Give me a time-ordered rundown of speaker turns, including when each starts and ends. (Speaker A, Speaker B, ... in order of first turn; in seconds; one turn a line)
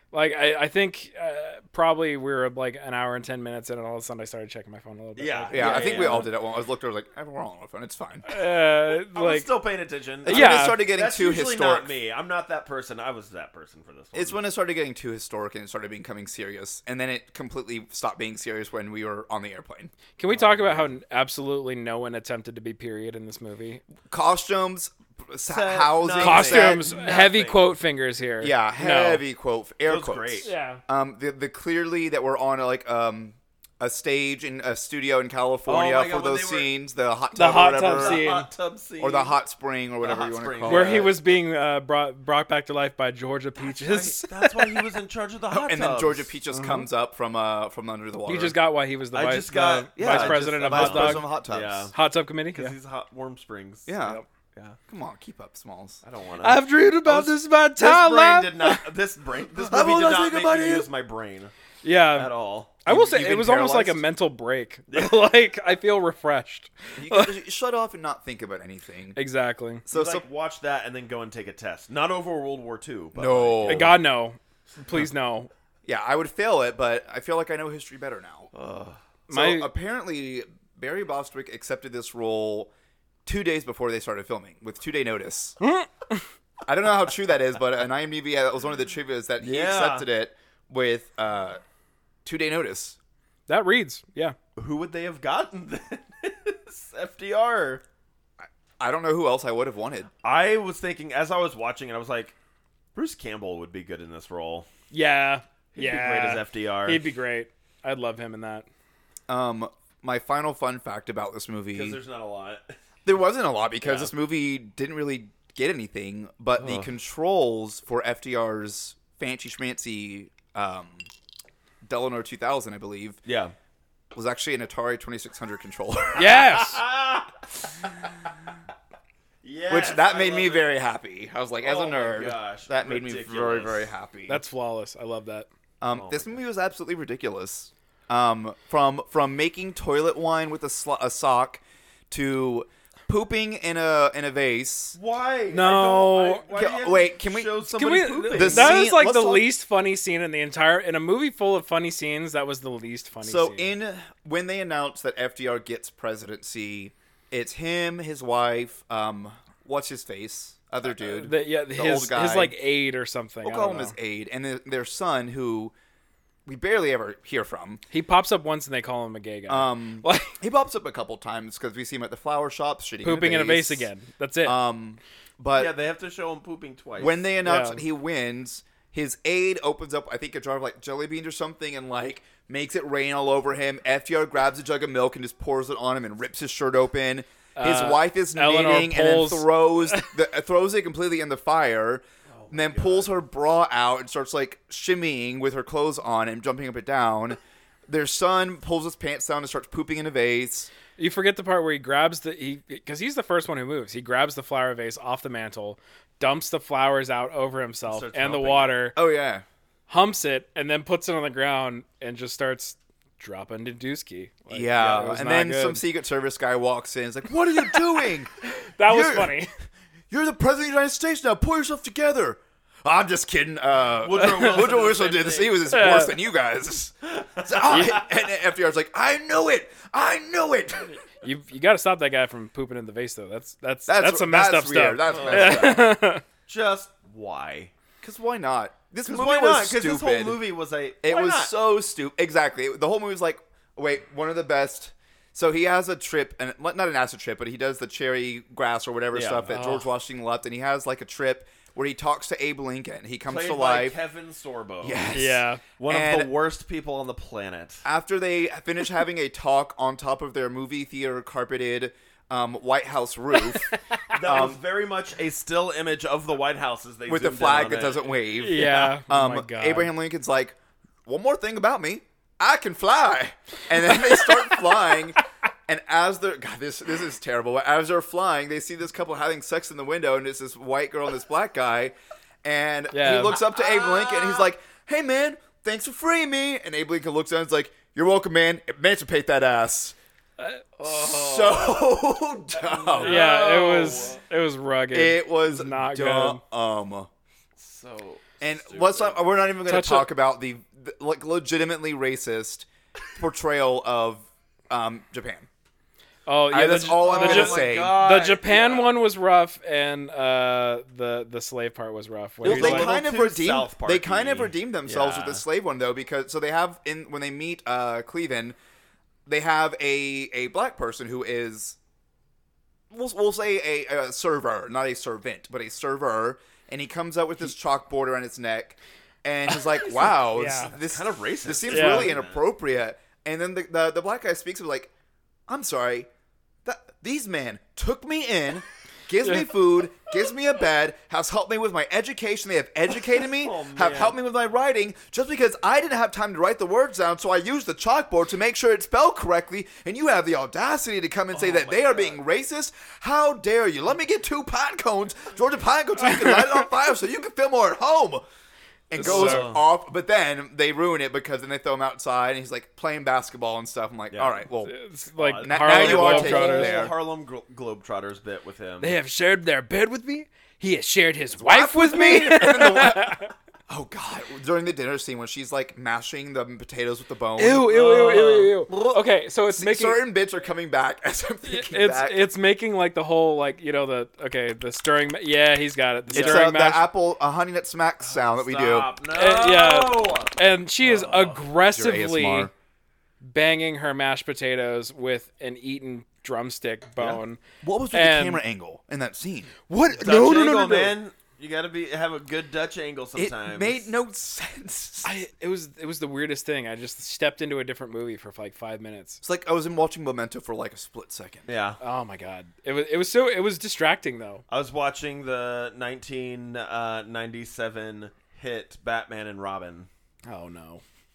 Speaker A: 0.1-6.3
Speaker B: 5.2-6.3
Speaker C: 5.5-8.3
Speaker A: 8.2-9.5
Speaker B: 8.9-14.4
Speaker C: 10.2-11.9
Speaker A: 10.3-10.8
Speaker C: 14.1-19.9
Speaker A: 20.2-23.8
Speaker B: 20.3-20.9
Speaker C: 24.1-27.0
Speaker B: 25.5-27.8
Speaker A: 26.2-29.2
Speaker C: 28.4-38.3
Speaker B: 29.9-30.5
Speaker A: 30.4-30.8
Speaker B: 35.7-36.7
Speaker A: 37.4-38.5
Speaker B: 38.0-39.4
Speaker C: 39.0-41.1
Speaker B: 40.0-41.2
Speaker A: 40.7-44.8
Speaker B: 43.6-46.3
Speaker C: 45.5-48.6
Speaker A: 46.5-46.9
Speaker A: 48.3-51.3
Speaker B: 49.1-52.0
Speaker C: 50.0-51.9
Speaker A: 51.9-52.8
Speaker B: 52.5-53.9
Speaker C: 53.9-54.2
Speaker C: 54.9-56.0
Speaker B: 56.0-61.5
Speaker A: 56.4-58.8
Speaker C: 59.5-60.9
Speaker A: 61.8-62.3
Speaker B: 62.1-62.8
Speaker A: 62.9-67.3
Speaker C: 62.9-64.0
Speaker B: 64.9-65.3
Speaker C: 67.0-69.2
Speaker A: 69.2-69.8
Speaker C: 69.9-70.3
Speaker B: 69.9-74.0
Speaker C: 73.1-74.0
Speaker A: 73.7-75.5
Speaker C: 75.8-78.5
Speaker B: 78.5-79.0
Speaker A: 79.3-79.7
Speaker C: 79.3-82.7
Speaker C: 83.3-85.6
Speaker A: 85.6-86.2
Speaker C: 86.7-91.6
Speaker B: 89.4-90.1
Speaker C: 92.2-93.0
Speaker A: 93.5-94.4
Speaker B: 94.6-97.8
Speaker C: 98.4-100.1
Speaker B: 100.2-102.3
Speaker B: 103.0-104.7
Speaker A: 104.9-108.7
Speaker B: 105.7-107.1
Speaker C: 109.3-112.0
Speaker B: 111.7-112.8
Speaker C: 113.0-121.1
Speaker B: 113.8-114.1
Speaker B: 116.6-116.9
Speaker C: 121.8-123.2
Speaker B: 123.2-123.5
Speaker C: 124.1-126.3
Speaker B: 126.2-127.3
Speaker A: 126.2-126.8
Speaker B: 129.4-130.7
Speaker C: 129.7-134.4
Speaker B: 131.6-133.9
Speaker A: 134.3-135.5
Speaker C: 135.8-145.0
Speaker B: 135.9-136.4
Speaker B: 145.0-148.9
Speaker A: 145.5-146.4
Speaker C: 146.5-149.5
Speaker A: 147.7-153.7
Speaker C: 153.2-162.6
Speaker A: 160.9-163.9
Speaker C: 163.4-165.7
Speaker C: 166.5-167.8
Speaker A: 167.9-170.4
Speaker C: 169.5-173.9
Speaker A: 173.0-174.6
Speaker C: 174.4-175.8
Speaker B: 175.5-177.3
Speaker C: 177.0-200.7
Speaker A: 177.4-177.8
Speaker A: 187.6-190.1
Speaker B: 192.3-193.2
Speaker A: 201.0-209.0
Speaker B: 207.9-208.8
Speaker C: 208.9-209.4
Speaker A: 209.9-215.8
Speaker C: 214.5-219.5
Speaker A: 218.4-219.5
Speaker C: 220.1-230.9
Speaker B: 224.0-225.8
Speaker A: 225.7-226.2
Speaker B: 227.2-228.0
Speaker A: 227.7-228.0
Speaker A: 231.2-236.2
Speaker C: 233.9-236.0
Speaker B: 235.1-235.8
Speaker B: 236.5-237.7
Speaker C: 238.0-240.4
Speaker B: 239.1-241.5
Speaker C: 241.0-254.0
Speaker B: 249.1-249.5
Speaker A: 249.5-249.9
Speaker B: 253.3-255.2
Speaker C: 254.8-256.3
Speaker A: 255.1-255.6
Speaker B: 255.8-257.9
Speaker C: 257.8-264.6
Speaker B: 264.1-269.0
Speaker C: 267.1-290.0
Speaker A: 268.4-269.9
Speaker A: 274.0-274.3
Speaker A: 282.9-283.4
Speaker B: 283.4-284.5
Speaker A: 290.4-290.8
Speaker B: 290.8-292.0
Speaker C: 290.8-293.2
Speaker B: 292.6-294.2
Speaker A: 293.0-296.4
Speaker C: 294.9-297.1
Speaker B: 297.6-299.3
Speaker C: 298.4-305.5
Speaker A: 299.6-300.1
Speaker A: 306.3-312.9
Speaker C: 306.5-308.0
Speaker B: 307.0-309.0
Speaker B: 312.4-315.4
Speaker C: 312.4-318.6
Speaker C: 319.3-321.8
Speaker C: 322.9-334.9
Speaker A: 330.2-330.7
Speaker B: 330.6-332.4
Speaker A: 331.7-332.1
Speaker C: 335.5-336.1
Speaker C: 336.6-358.2
Speaker A: 339.2-339.5
Speaker B: 343.2-344.2
Speaker B: 351.3-352.2
Speaker A: 356.1-356.4
Speaker C: 358.9-364.7
Speaker A: 359.0-359.5
Speaker B: 359.0-359.7
Speaker B: 364.1-364.4
Speaker A: 364.6-366.8
Speaker B: 365.2-369.0
Speaker C: 365.4-366.9
Speaker A: 368.8-373.3
Speaker C: 371.3-382.3
Speaker A: 377.4-380.0
Speaker B: 377.9-378.2
Speaker A: 381.4-386.9
Speaker B: 386.1-386.4
Speaker C: 386.1-388.9
Speaker B: 388.0-391.4
Speaker A: 389.1-392.5
Speaker C: 391.6-392.5
Speaker A: 393.2-397.4
Speaker C: 397.6-400.6
Speaker A: 397.9-398.4
Speaker A: 399.7-400.9
Speaker B: 400.0-403.9
Speaker C: 403.2-405.2
Speaker A: 405.0-409.2
Speaker C: 409.2-411.5
Speaker B: 411.5-411.8
Speaker A: 411.8-414.4
Speaker B: 414.5-419.9
Speaker A: 420.3-420.8